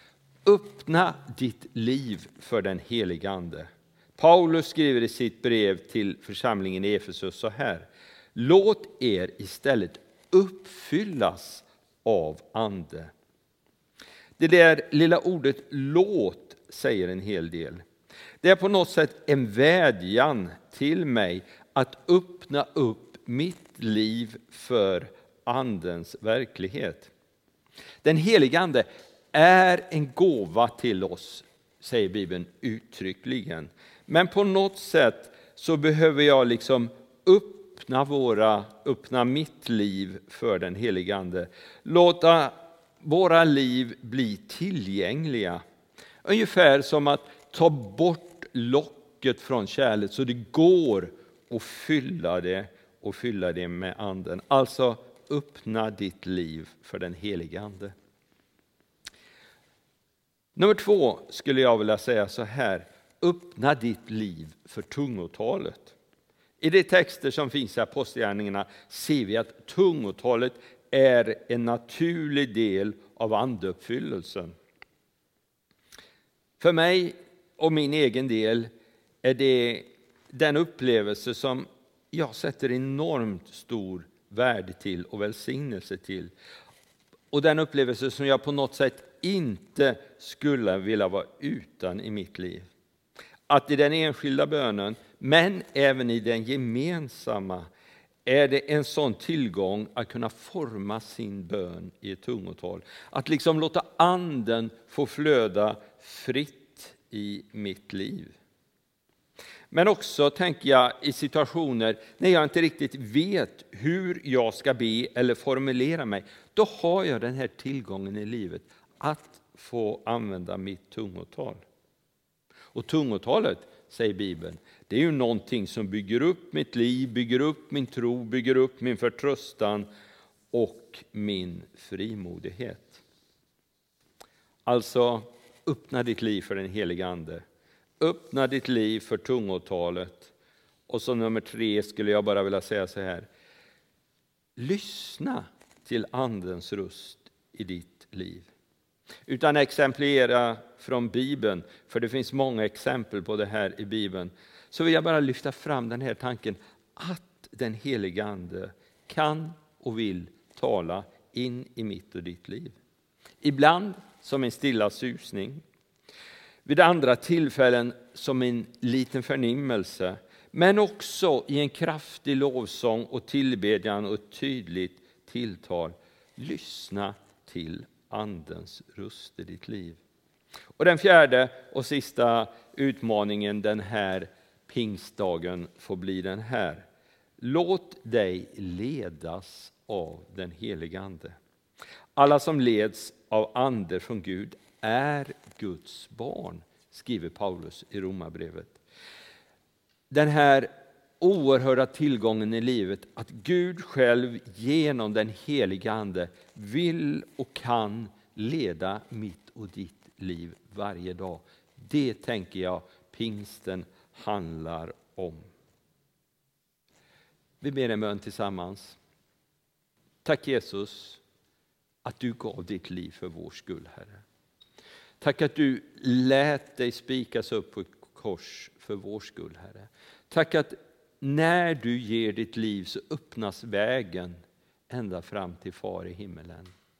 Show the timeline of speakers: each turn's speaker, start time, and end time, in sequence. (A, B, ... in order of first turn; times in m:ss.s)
0:00.4-0:13.1 A
0:14.4-0:17.8 A
0:18.4-0:27.1 A
0:28.0-0:45.6 A
0:46.2-0:57.9 A
1:00.6-1:06.0 A
1:06.6-1:14.5 A
1:16.6-1:18.7 A
1:19.2-1:26.3 A
1:27.3-1:32.6 A
1:33.5-1:37.7 A
1:38.2-1:48.4 A
1:49.7-2:01.6 A
2:02.7-2:09.9 A
2:10.5-2:13.0 A
2:14.6-2:17.4 A
2:18.0-2:20.3 A
2:20.9-2:23.2 A
2:24.6-2:28.5 A
2:29.3-2:42.8 A
2:43.4-2:45.6 A
2:46.6-3:00.0 A
3:00.8-3:06.8 A
3:07.4-3:11.4 A
3:12.2-3:18.8 A
3:20.1-3:35.4 A
3:37.6-3:39.0 A
3:40.2-3:41.2 A
3:42.0-3:44.2 A
3:45.2-3:56.7 A